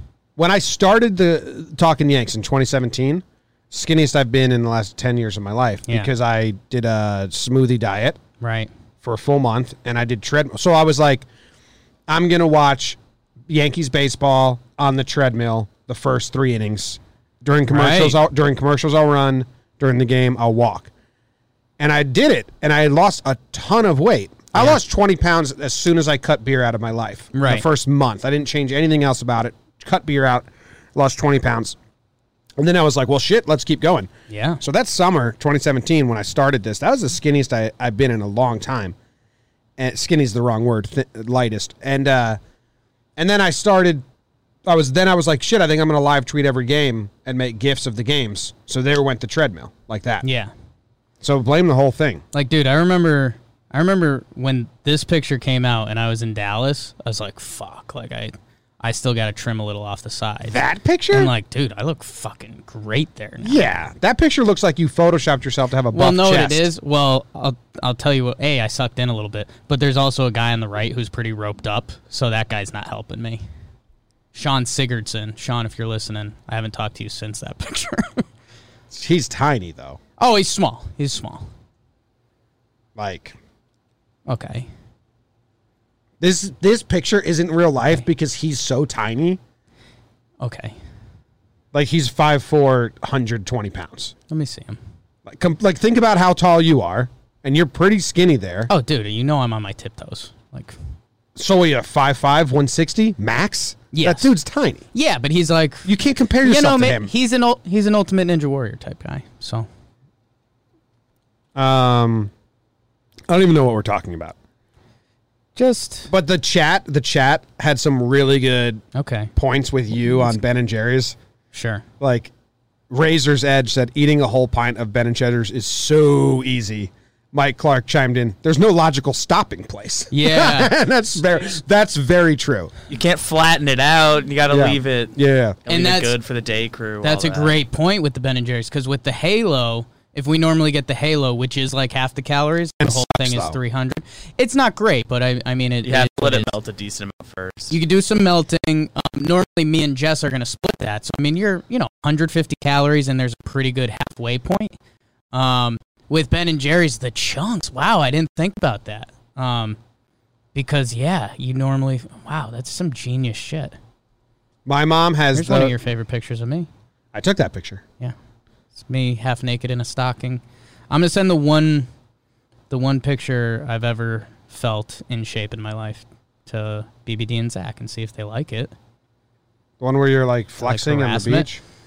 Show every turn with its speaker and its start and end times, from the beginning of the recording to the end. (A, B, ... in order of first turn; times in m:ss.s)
0:00.4-0:08.2 A
0:08.4-0:08.7 B
0:09.0-0:11.3 A
0:12.1-0:20.9 A
0:17.7-0:18.2 B
0:21.8-0:31.8 A
0:24.5-0:24.8 B
0:27.3-0:27.6 B
0:32.6-0:34.1 A
0:34.3-0:34.6 B
0:34.6-0:38.9 A
0:39.8-0:42.4 A
0:43.2-0:44.0 A
0:44.6-0:50.2 A
0:50.2-0:50.5 B
0:51.2-0:52.2 A
0:52.3-1:00.6 B
1:00.5-1:01.3 A
1:01.1-1:03.6 B
1:03.4-1:06.7 A
1:05.9-1:13.4 B
1:14.3-1:18.2 B
1:18.9-1:20.0 A
1:20.2-1:21.5 B
1:23.0-1:23.4 A
1:24.3-1:24.7 B
1:26.2-1:29.4 A
1:30.4-1:30.8 B
1:31.7-1:34.1 A
1:34.3-1:34.8 B
1:35.2-1:38.7 A
1:38.7-1:40.8 B
1:41.4-1:44.8 A
1:43.9-1:44.3 B
1:44.9-1:49.7 B
1:45.8-1:47.1 A
1:51.5-1:52.3 A
1:53.3-1:54.4 A
1:55.6-1:56.1 B
1:56.1-1:58.8 A
1:58.9-1:59.3 B
1:59.4-2:01.2 A
2:00.0-2:00.3 B
2:01.5-2:01.8 B
2:02.0-2:02.3 A
2:02.9-2:12.7 A
2:10.1-2:10.7 B
2:12.9-2:17.6 C
2:14.5-2:15.6 A
2:15.7-2:16.1 B
2:17.0-2:26.5 B
2:22.8-2:23.6 A
2:25.8-2:27.8 C
2:27.7-2:34.8 B
2:35.3-2:39.8 B
2:40.5-2:43.8 B
2:44.6-2:45.7 A
2:45.3-2:46.7 B
2:47.1-2:47.8 A
2:48.8-2:51.9 B
2:52.7-2:58.7 B
2:59.8-3:01.6 A
3:00.6-3:01.5 B